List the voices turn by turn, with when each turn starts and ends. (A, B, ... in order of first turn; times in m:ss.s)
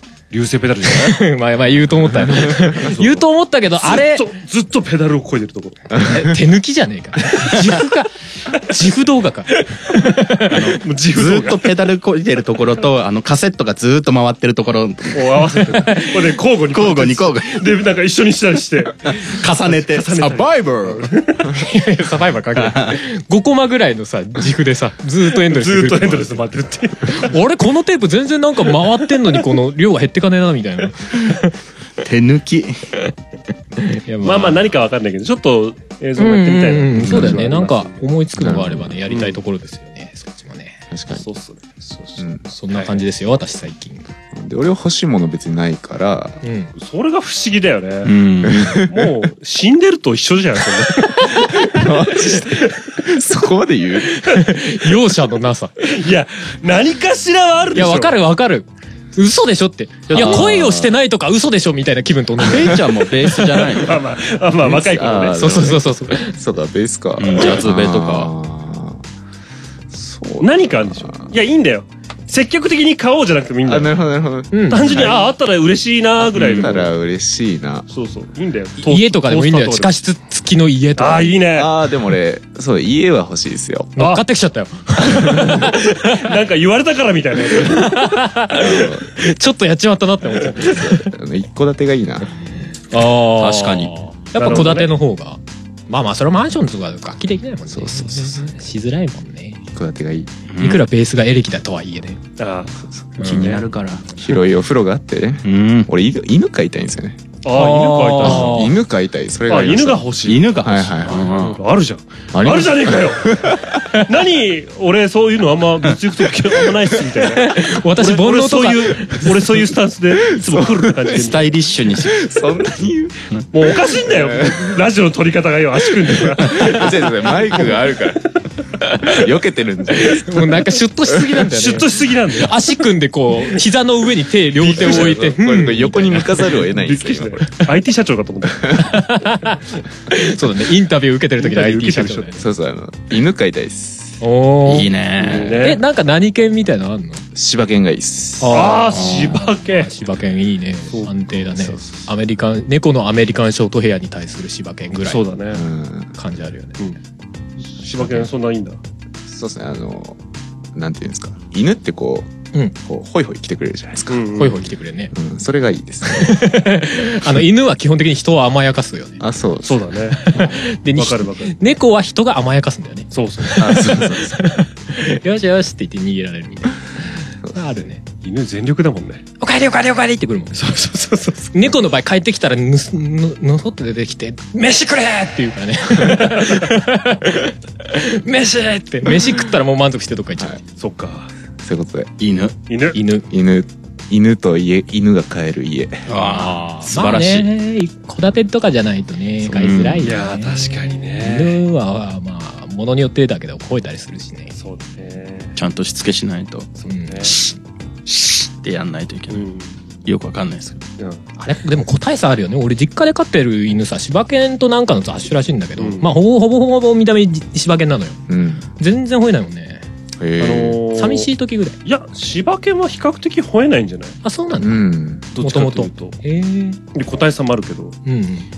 0:00.3-0:01.2 A
0:00.9-0:04.3 B
0:02.2-0:02.9 C
0:02.8-0:03.2 A
0:03.8-0:06.0 A
0:06.0-0:10.8 B
0:10.5-0:11.6 A
0:11.1-0:15.5 D
0:15.1-0:21.5 A
0:16.7-0:17.7 D
0:19.1-0:21.1 D
0:21.5-0:26.4 B
0:22.6-0:23.0 D
0:25.5-0:27.3 A
0:27.0-0:31.6 B
0:32.0-0:32.8 D
0:33.8-0:34.7 B
0:34.2-0:38.1 A
0:36.2-0:40.8 B
0:37.0-0:37.5 C
0:38.4-0:39.0 C
0:39.1-0:39.4 A
0:40.9-0:41.3 C
0:41.1-0:41.6 A
0:42.2-0:42.5 C
0:42.5-0:44.0 B
0:42.7-0:43.0 A
0:44.3-0:46.4 C
0:46.4-0:46.7 B
0:46.8-0:48.2 A
0:48.0-0:48.8 D
0:48.4-0:49.3 C
0:48.9-0:52.8 A
0:51.6-0:54.4 C
0:54.3-0:55.7 B
0:55.8-0:58.2 A
0:57.8-1:02.9 B
1:00.1-1:00.7 D
1:00.1-1:00.9 C
1:02.4-1:04.0 D
1:03.8-1:05.5 A
1:04.6-1:09.0 C
1:05.4-1:06.3 B
1:07.2-1:08.3 D
1:09.9-1:11.4 C
1:10.4-1:14.0 A
1:13.6-1:15.4 C
1:14.5-1:15.1 B
1:14.7-1:16.9 A
1:16.2-1:17.9 C
1:17.9-1:20.0 A
1:18.8-1:21.4 B
1:21.0-1:21.7 A
1:21.5-1:23.9 C
1:24.0-1:26.2 B
1:24.0-1:24.2 A
1:25.2-1:28.2 A
1:27.6-1:31.1 B
1:28.5-1:29.1 C
1:30.5-1:32.3 C
1:32.9-1:39.6 B
1:33.4-1:33.9 D
1:34.4-1:34.9 A
1:37.7-1:38.5 C
1:39.7-1:40.3 C
1:40.5-1:40.8 D
1:40.6-1:42.2 B
1:42.4-1:43.6 A
1:43.2-1:43.6 B
1:43.2-1:44.0 D
1:44.2-1:47.2 C
1:45.4-1:45.9 D
1:47.4-1:48.7 A
1:47.5-1:48.8 B
1:48.2-1:51.6 C
1:49.5-1:50.5 A
1:50.2-1:51.6 D
1:51.1-1:53.4 A
1:52.3-1:53.8 C
1:54.0-2:01.5 A
1:57.3-1:59.6 B
2:00.4-2:01.1 C
2:01.1-2:02.2 D
2:02.0-2:04.8 C
2:03.5-2:07.1 A
2:06.2-2:08.4 C
2:09.0-2:11.4 C
2:10.3-2:16.5 B
2:11.4-2:12.6 A
2:14.6-2:17.6 C
2:14.8-2:15.2 A
2:16.6-2:18.9 A
2:18.8-2:19.6 B
2:20.1-2:22.4 B
2:21.4-2:22.4 A
2:22.4-2:24.2 C
2:24.2-2:24.9 B
2:24.7-2:25.6 D
2:25.2-2:25.5 C
2:25.2-2:25.8 A
2:25.6-2:27.2 B
2:27.3-2:28.9 C
2:28.4-2:35.2 B
2:28.5-2:29.9 A
2:28.9-2:29.4 D
2:30.9-2:31.9 A
2:35.1-2:35.6 A
2:35.5-2:36.1 C
2:36.2-2:36.8 B
2:37.8-2:38.8 A
2:38.0-2:38.3 C
2:39.3-2:40.2 C
2:40.7-2:46.6 C
2:44.1-2:44.6 A
2:44.4-2:45.1 B
2:46.1-2:49.2 B
2:49.2-2:50.0 C
2:49.6-2:51.6 A
2:50.2-2:58.0 B
2:53.1-2:53.7 A
2:53.6-2:54.4 C
2:57.4-2:57.8 C
2:58.2-2:59.2 A
2:59.4-3:00.6 B
3:00.6-3:01.5 A
3:01.5-3:10.6 B
3:10.8-3:11.3 A
3:11.6-3:12.1 C
3:12.2-3:12.6 D
3:12.7-3:13.0 A
3:12.9-3:13.3 B
3:13.3-3:16.1 C
3:16.1-3:17.5 D
3:16.2-3:24.5 B
3:19.5-3:20.1 D
3:20.0-3:21.6 A
3:24.6-3:25.6 A
3:25.6-3:26.7 D
3:26.8-3:27.4 A
3:26.9-3:27.4 B
3:27.2-3:27.5 D
3:28.1-3:29.4 D
3:29.3-3:29.8 A
3:30.0-3:30.8 D
3:31.4-3:38.2 B
3:35.8-3:36.1 A
3:38.3-3:38.7 C
3:38.8-3:39.8 B
3:40.2-3:40.8 C
3:40.4-3:41.3 A
3:40.9-3:41.8 B
3:41.8-3:44.2 A
3:44.2-3:46.8 B
3:44.6-3:45.3 C
3:45.3-3:46.2 A
3:46.9-3:48.0 A
3:48.1-3:48.5 B